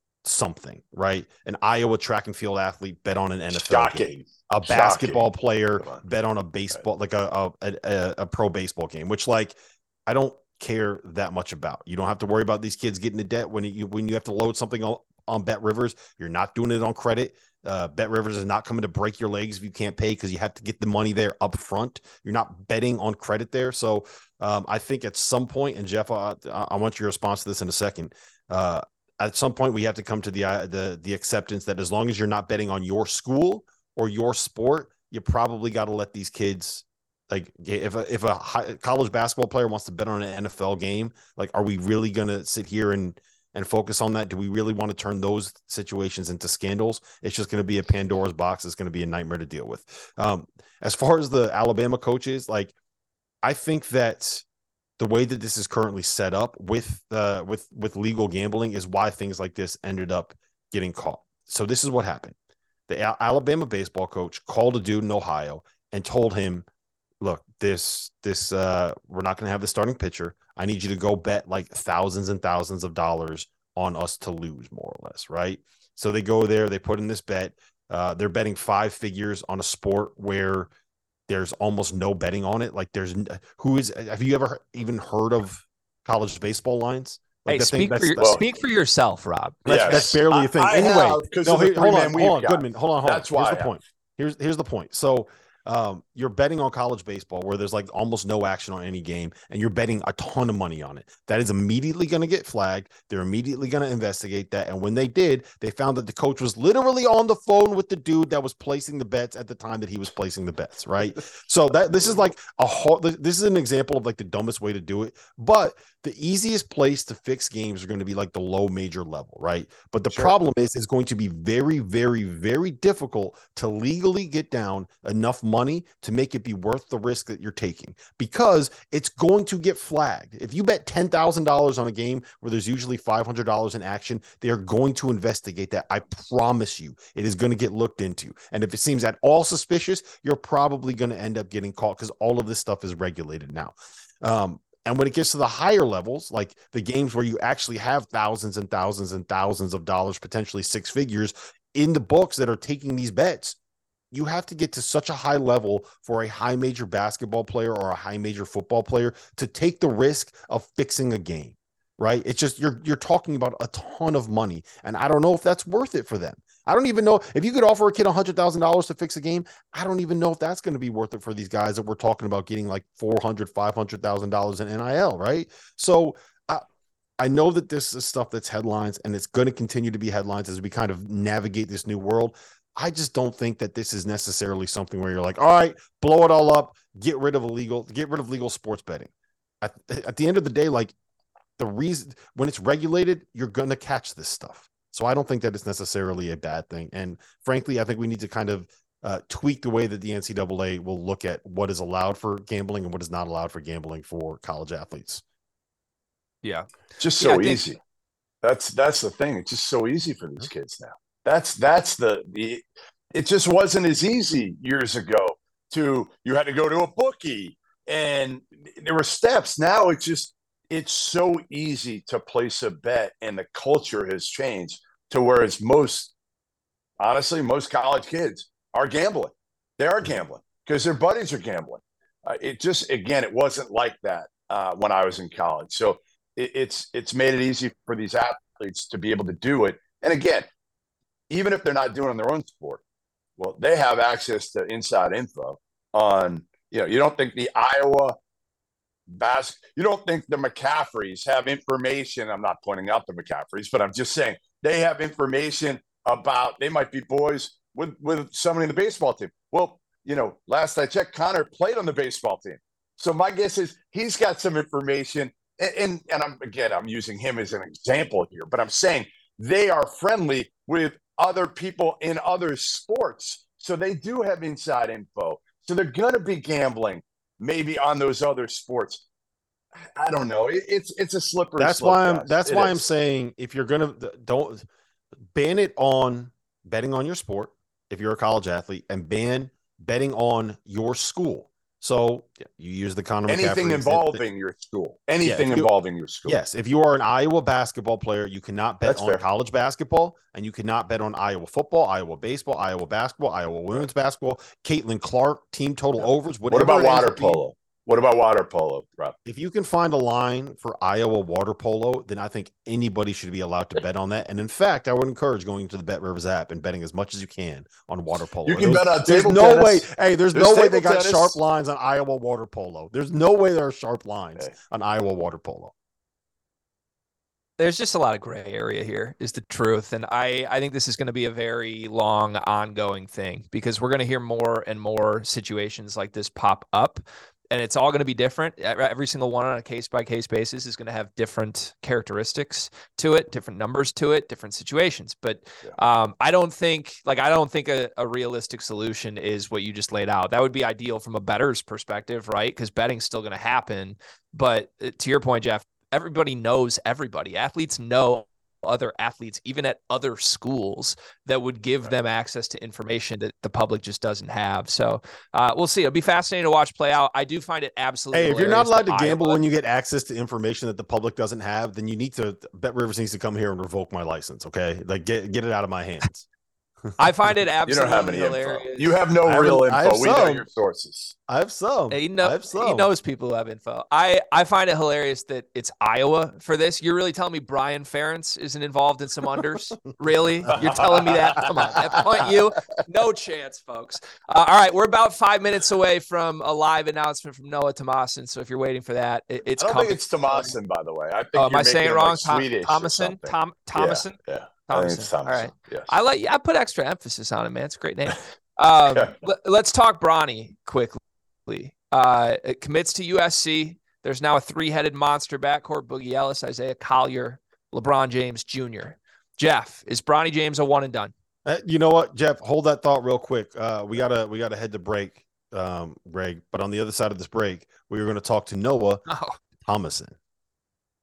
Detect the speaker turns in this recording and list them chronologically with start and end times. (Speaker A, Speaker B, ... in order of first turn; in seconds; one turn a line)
Speaker A: 0.2-52.7
Speaker B: 3.5-5.3
Speaker A: 53.4-54.5
Speaker A: 55.0-62.4
Speaker A: 62.9-66.7
Speaker A: 67.2-80.7
Speaker A: 81.3-88.4
Speaker C: 87.5-90.0
Speaker A: 89.7-153.6
Speaker B: 89.7-93.8
Speaker A: 154.1-176.6
Speaker A: 177.2-190.9
Speaker A: 191.6-205.2
Speaker C: 206.4-207.6
Speaker B: 207.0-207.8
Speaker B: 208.4-226.1
Speaker B: 227.0-240.5
Speaker B: 241.3-242.8
Speaker B: 243.4-248.2
Speaker B: 249.1-279.0
Speaker B: 279.9-282.9
Speaker A: 281.6-284.6
Speaker A: 285.3-294.2
Speaker B: 293.3-296.4
Speaker A: 295.2-295.7
Speaker A: 296.3-307.4
Speaker B: 298.9-299.2
Speaker B: 306.5-309.1
Speaker A: 309.2-325.7
Speaker B: 318.5-321.4
Speaker C: 327.6-369.4
Speaker A: 368.1-376.3
Speaker C: 377.0-378.9
Speaker B: 377.7-381.1
Speaker A: 379.3-380.5
Speaker A: 381.3-382.9
Speaker C: 381.9-400.5
Speaker A: 390.5-390.7
Speaker B: 390.6-391.5
Speaker B: 399.6-405.9
Speaker C: 401.4-421.1
Speaker A: 421.4-429.1
Speaker C: 429.1-429.4
Speaker A: 429.6-430.2